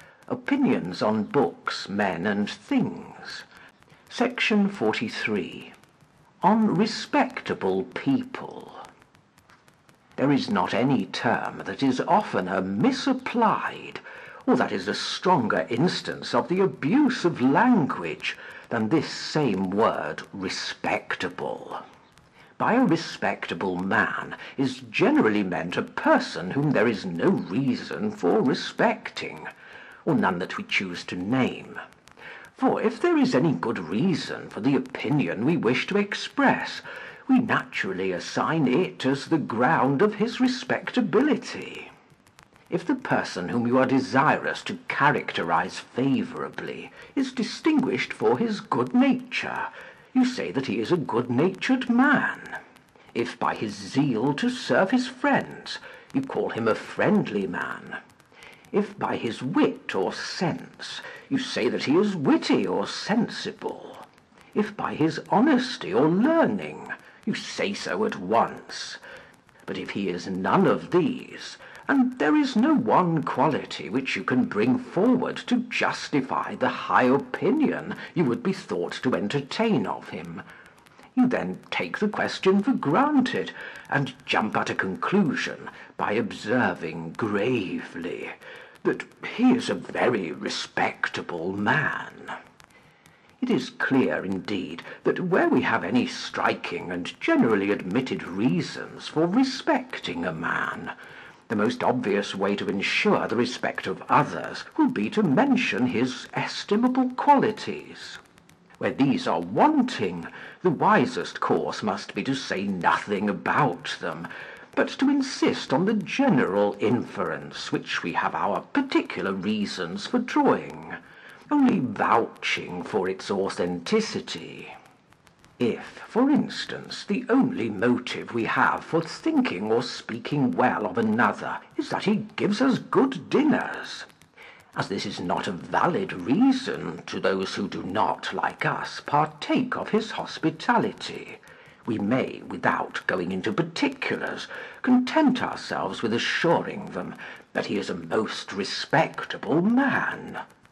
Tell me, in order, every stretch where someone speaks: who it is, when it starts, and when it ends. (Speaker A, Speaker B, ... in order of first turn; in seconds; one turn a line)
Speaker A: 0.3-3.5
Speaker A: 4.1-5.7
Speaker A: 6.4-8.9
Speaker A: 10.2-21.8
Speaker A: 22.6-29.5
Speaker A: 30.1-31.8
Speaker A: 32.5-41.9
Speaker A: 42.7-52.6
Speaker A: 53.1-58.0
Speaker A: 58.7-69.0
Speaker A: 69.7-80.4
Speaker A: 81.2-92.4
Speaker A: 93.4-100.9
Speaker A: 101.5-108.2
Speaker A: 108.8-121.0
Speaker A: 121.5-124.7
Speaker A: 125.6-134.1
Speaker A: 134.8-150.4